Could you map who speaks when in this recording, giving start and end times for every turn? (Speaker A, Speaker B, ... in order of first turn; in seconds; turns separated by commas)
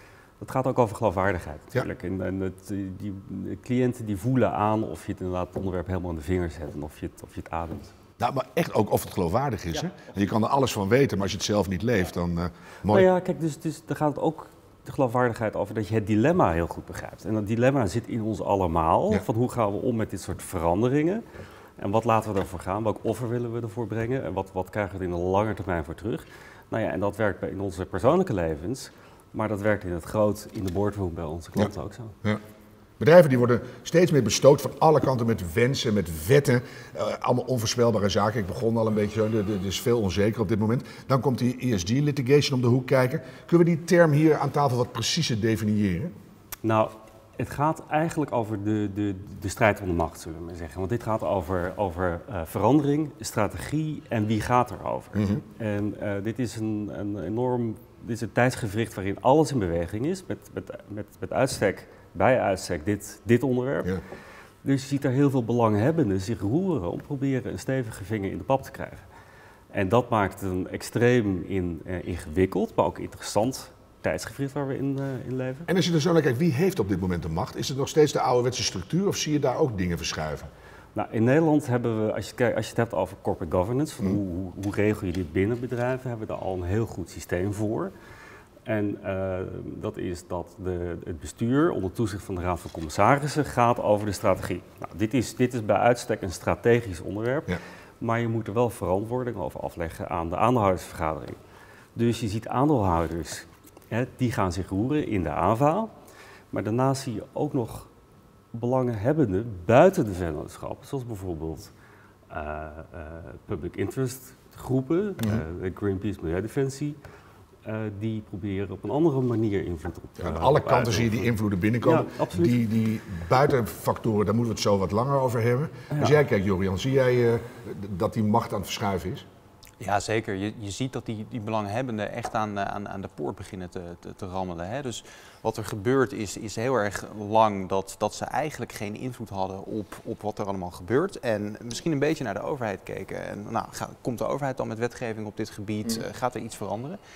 Speaker A: 0.4-7.9, Speaker B: 8.2-13.1, Speaker A: 12.9-21.2, Speaker A: 21.8-32.1, Speaker B: 33.0-46.1, Speaker A: 46.6-64.0, Speaker B: 55.1-55.4, Speaker A: 64.6-69.0, Speaker A: 69.7-75.7, Speaker B: 75.7-80.5, Speaker A: 80.9-87.9, Speaker A: 88.6-101.4, Speaker A: 101.9-105.9, Speaker A: 106.5-107.9, Speaker A: 108.5-111.7, Speaker A: 112.3-117.0, Speaker A: 117.6-122.6, Speaker B: 120.2-129.2, Speaker A: 125.9-126.2, Speaker C: 129.8-147.0